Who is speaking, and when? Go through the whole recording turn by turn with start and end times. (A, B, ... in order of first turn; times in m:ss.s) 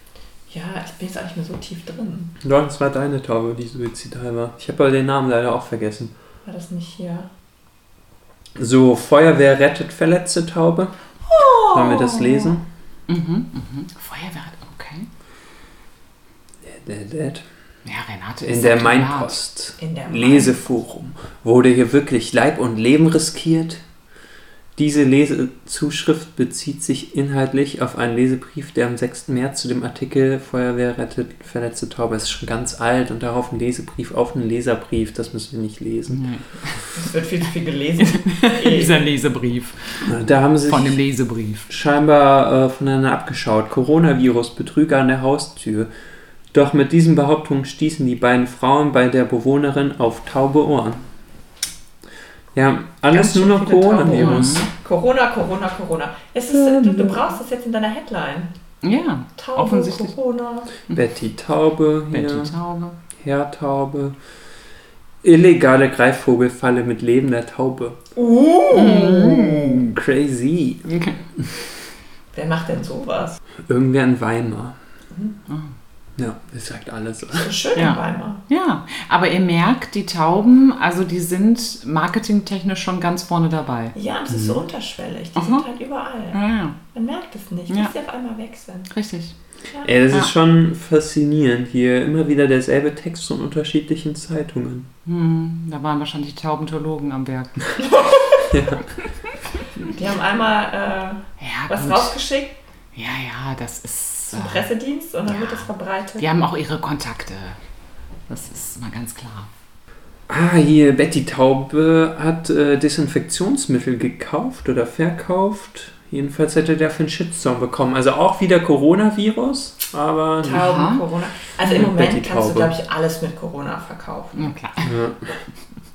0:00.5-0:02.3 A
0:02.4-0:06.1 B
0:06.4-0:07.3 A
0:08.6-0:10.9 B
0:11.3-0:12.5 A
0:11.6-0:12.7 B
0:13.1-0:15.1 C
0:16.6-0:17.4 B
0:17.8-0:19.4 C
0:18.4-0:23.8 B
0:19.8-0:20.6 A
0:24.8-0:36.2 B
0:36.1-0:36.9 C
0:36.9-0:39.0 A
0:38.0-0:40.1 C
0:40.0-0:41.0 B
0:40.7-0:41.7 C
0:41.7-0:45.9 B
0:46.5-0:51.0 B
0:52.5-0:54.6 B
0:53.1-0:58.5 A
0:54.1-0:54.7 C
0:56.5-0:57.2 B
0:58.8-1:00.1 C
0:59.4-1:00.7 A
1:00.9-1:02.5 B
1:02.1-1:03.0 C
1:03.2-1:04.2 B
1:05.2-1:08.0 B
1:08.1-1:09.2 A
1:08.7-1:09.9 C
1:08.8-1:11.5 B
1:10.9-1:11.2 C
1:12.3-1:13.4 A
1:13.6-1:14.8 B
1:16.2-1:17.5 B
1:17.4-1:18.4 A
1:17.7-1:23.9 C
1:23.9-1:26.4 A
1:24.3-1:24.6 B
1:25.4-1:25.6 C
1:26.3-1:26.8 C
1:26.9-1:28.9 A
1:28.9-1:29.3 C
1:29.8-1:34.9 B
1:35.0-1:37.8 C
1:37.9-1:38.4 A
1:38.5-1:38.9 B
1:39.9-1:42.6 A
1:41.4-1:42.2 C
1:42.9-1:44.7 C
1:44.3-1:46.2 A
1:45.2-1:45.7 C
1:46.2-1:47.6 C
1:48.3-1:49.5 C
1:50.3-2:00.7 B
2:00.4-2:04.5 A
2:00.5-2:01.0 C
2:01.6-2:02.7 B
2:04.3-2:05.0 C
2:04.8-2:05.4 B